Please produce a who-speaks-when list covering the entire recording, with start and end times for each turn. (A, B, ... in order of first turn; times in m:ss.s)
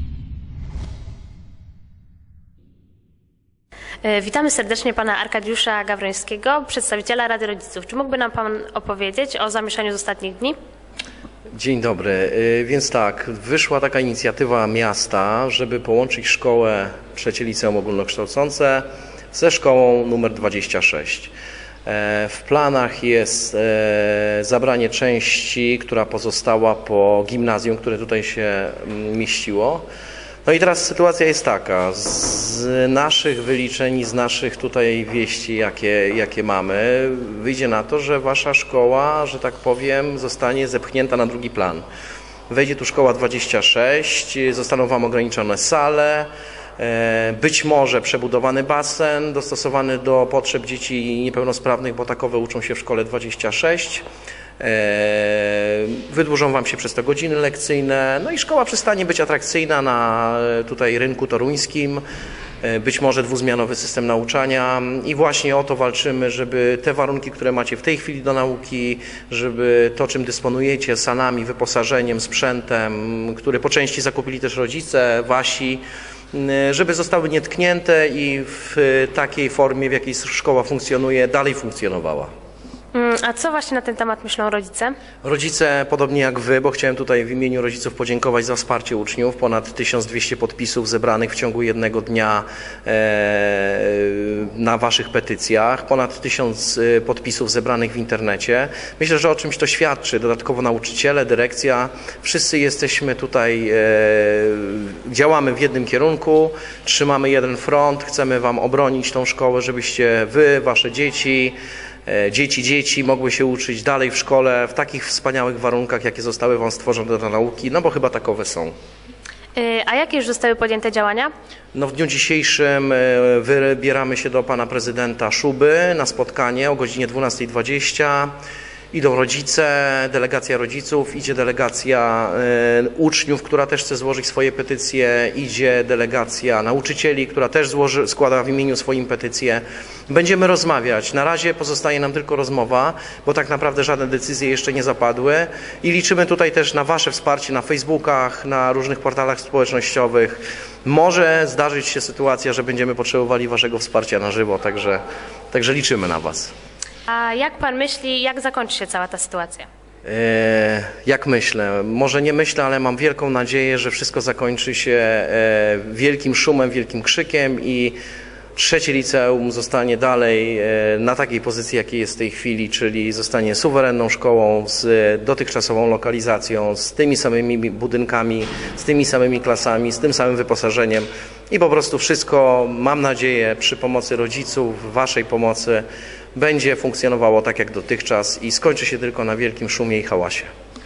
0:04.0-0:10.5 A
0:11.5-0:21.3 B
0:21.8-0:29.8 B
0:30.4-0:41.8 B
0:42.5-0:54.0 B
0:54.6-1:02.0 B
1:02.6-1:22.3 B
1:22.9-1:25.0 A
1:25.2-1:58.7 B
1:59.5-2:01.3 A
2:01.7-2:08.3 B
2:08.9-2:35.0 B
2:35.5-2:36.5 B
2:37.1-2:39.6 A
2:40.0-2:48.0 B
2:48.6-3:10.5 B